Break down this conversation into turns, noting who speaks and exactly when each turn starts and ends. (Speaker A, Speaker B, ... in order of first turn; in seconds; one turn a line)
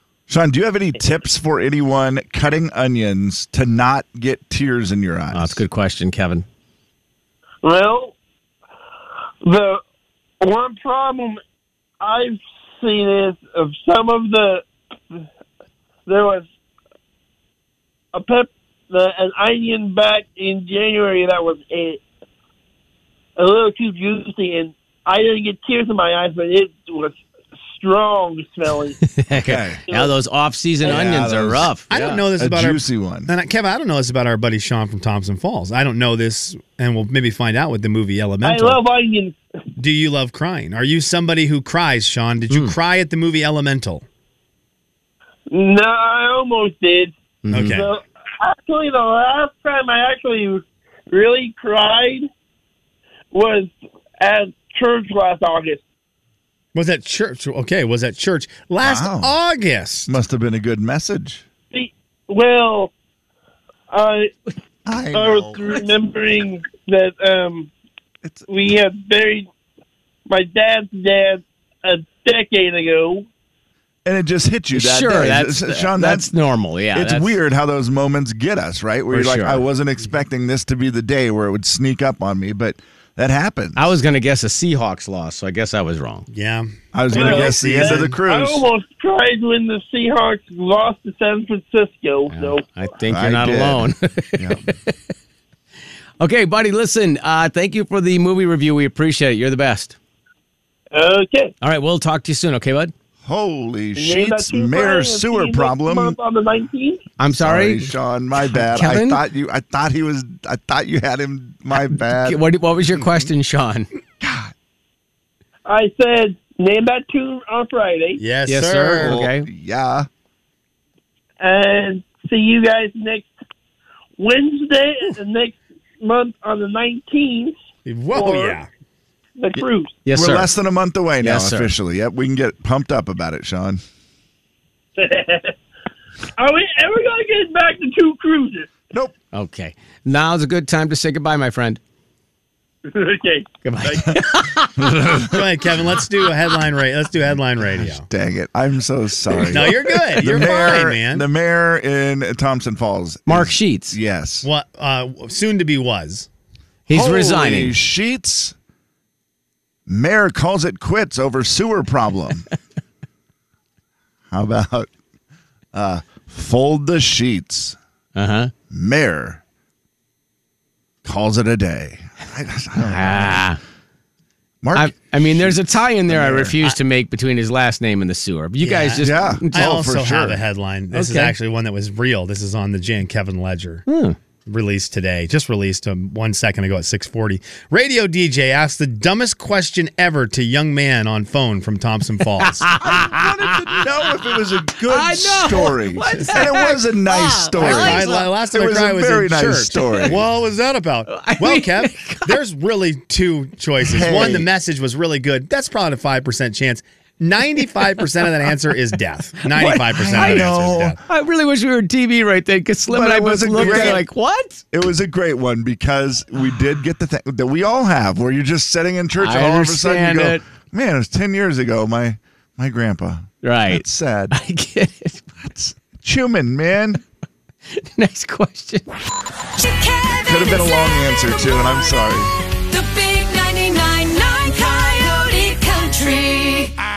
Speaker A: 0.3-5.6
Speaker B: 5.3-6.5
Speaker C: 7.6-8.2
Speaker C: 9.4-9.8
Speaker C: 10.4-11.4
Speaker C: 12.0-15.2
Speaker C: 16.1-16.5
Speaker C: 18.1-22.0
Speaker C: 23.4-27.2
Speaker C: 27.7-29.0
Speaker B: 29.1-32.2
Speaker A: 29.4-29.8
Speaker C: 30.8-31.1
Speaker A: 30.8-31.7
Speaker D: 31.9-38.8
Speaker A: 32.4-33.3
Speaker C: 38.4-39.4
Speaker D: 39.8-44.0
Speaker B: 42.5-42.8
Speaker C: 45.5-47.1
Speaker B: 47.5-47.8
Speaker D: 47.5-47.9
Speaker C: 47.7-52.3
Speaker C: 53.3-55.8
Speaker D: 56.8-60.1
Speaker A: 58.8-59.4
Speaker A: 60.1-61.5
Speaker C: 61.7-62.9
Speaker C: 63.9-64.3
Speaker A: 64.9-65.8
Speaker C: 65.1-67.7
Speaker C: 68.5-69.5
Speaker C: 70.3-73.3
Speaker A: 74.0-76.3
Speaker B: 74.7-77.3
Speaker A: 76.9-83.9
Speaker B: 79.1-79.6
Speaker B: 83.8-86.3
Speaker D: 86.3-88.1
Speaker A: 86.9-88.7
Speaker C: 87.1-92.7
Speaker B: 92.3-94.9
Speaker A: 93.1-94.7
Speaker B: 96.2-100.0
Speaker C: 100.9-101.5
Speaker B: 101.6-102.9
Speaker A: 103.2-106.2
Speaker C: 104.0-107.0
Speaker B: 107.2-107.9
Speaker A: 107.3-113.3
Speaker B: 108.5-109.2
Speaker B: 112.1-113.9
Speaker A: 114.2-114.5
Speaker C: 115.7-118.2
Speaker D: 118.2-119.2
Speaker B: 118.5-119.5
Speaker A: 119.0-120.1
Speaker C: 121.4-123.3
Speaker C: 124.2-127.5
Speaker D: 127.9-128.7
Speaker C: 128.1-128.6
Speaker C: 129.4-130.0
Speaker A: 129.6-133.8
Speaker B: 130.1-130.5
Speaker B: 131.2-131.7
Speaker C: 135.0-135.6
Speaker C: 136.4-138.7
Speaker B: 139.3-141.8
Speaker C: 142.9-144.2
Speaker B: 143.6-145.2
Speaker A: 144.8-145.4
Speaker D: 145.3-148.1
Speaker A: 147.8-154.5
Speaker D: 149.5-151.2
Speaker B: 153.3-154.0
Speaker D: 154.4-156.3
Speaker B: 156.9-157.8
Speaker A: 156.9-158.6
Speaker A: 159.9-162.5
Speaker A: 164.3-164.9
Speaker A: 165.7-167.8
Speaker B: 168.2-168.5
Speaker A: 168.7-169.4
Speaker A: 171.0-173.5
Speaker B: 172.8-173.6
Speaker A: 174.6-176.6
Speaker B: 174.8-179.7
Speaker D: 178.6-183.9
Speaker A: 179.0-180.4
Speaker B: 180.9-181.3
Speaker B: 183.9-184.2
Speaker D: 184.5-192.7
Speaker B: 192.4-193.9
Speaker A: 192.7-200.2
Speaker B: 194.8-198.3
Speaker D: 197.6-211.0
Speaker B: 199.7-200.1
Speaker B: 201.1-202.4
Speaker A: 203.8-204.5
Speaker B: 209.5-214.6
Speaker A: 209.9-211.0
Speaker A: 212.9-214.1
Speaker D: 213.6-214.0
Speaker A: 214.7-224.3
Speaker B: 219.2-220.4
Speaker B: 223.4-225.3
Speaker A: 225.4-227.0
Speaker B: 227.8-228.9
Speaker E: 229.6-231.5
Speaker A: 230.2-232.3
Speaker E: 232.7-236.7